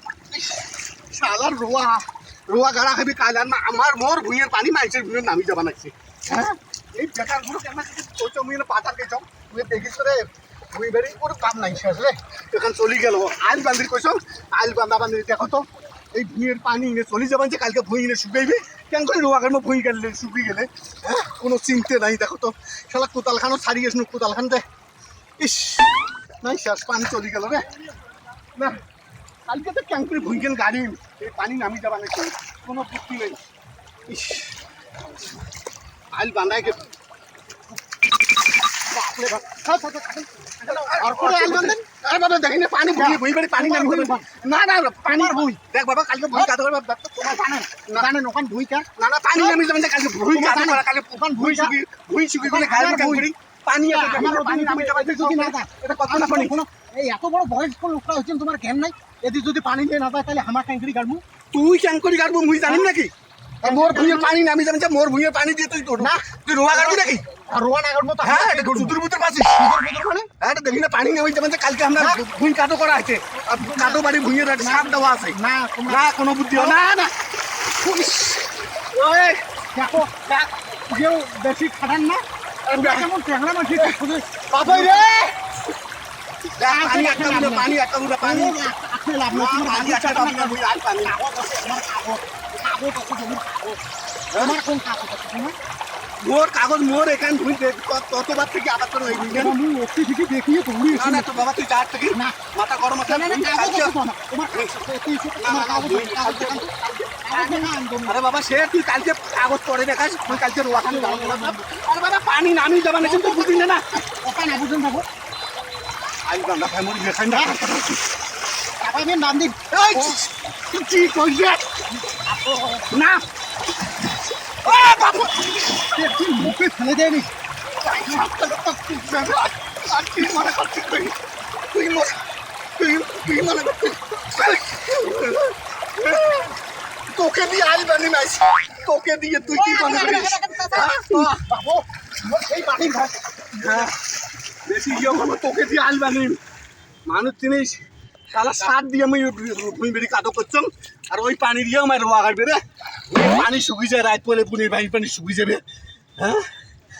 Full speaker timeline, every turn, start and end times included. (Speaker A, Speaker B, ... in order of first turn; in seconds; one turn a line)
Speaker A: 0.3-24.6
Speaker A: 25.4-27.7
Speaker A: 29.5-33.4
Speaker A: 34.1-34.5
Speaker A: 36.1-36.9
Speaker B: 38.9-41.9
Speaker A: 40.6-47.3
Speaker B: 42.9-44.3
Speaker B: 45.1-45.6
Speaker B: 47.2-49.6
Speaker A: 49.0-56.6
Speaker B: 50.3-51.8
Speaker B: 52.4-53.3
Speaker B: 53.9-61.2
Speaker A: 61.5-67.3
Speaker B: 63.6-64.3
Speaker B: 66.0-70.3
Speaker A: 68.2-69.7
Speaker A: 70.4-77.1
Speaker B: 72.0-72.2
Speaker B: 73.4-76.8
Speaker B: 77.9-78.1
Speaker A: 78.9-79.4
Speaker B: 79.8-80.1
Speaker A: 80.3-80.5
Speaker B: 80.9-85.3
Speaker A: 82.7-83.1
Speaker A: 84.5-85.0
Speaker A: 86.6-88.6
Speaker B: 86.6-93.8
Speaker A: 89.3-91.2
Speaker B: 94.3-95.5
Speaker A: 96.2-99.6
Speaker B: 99.1-101.5
Speaker A: 100.9-104.0
Speaker B: 102.1-102.4
Speaker B: 103.0-106.7
Speaker A: 105.4-113.9
Speaker B: 107.2-108.2
Speaker B: 110.3-111.6
Speaker B: 113.0-115.1
Speaker A: 116.2-118.0
Speaker B: 117.3-117.7
Speaker B: 118.8-120.2
Speaker A: 119.7-121.7
Speaker B: 122.1-122.9
Speaker A: 122.9-123.2
Speaker A: 124.6-125.9
Speaker B: 125.8-127.3
Speaker A: 127.8-131.2
Speaker A: 131.7-132.2
Speaker A: 132.8-136.5
Speaker A: 137.1-141.4
Speaker B: 139.5-143.9
Speaker A: 143.6-143.9
Speaker A: 144.7-146.4
Speaker A: 147.1-155.6
Speaker A: 156.2-156.5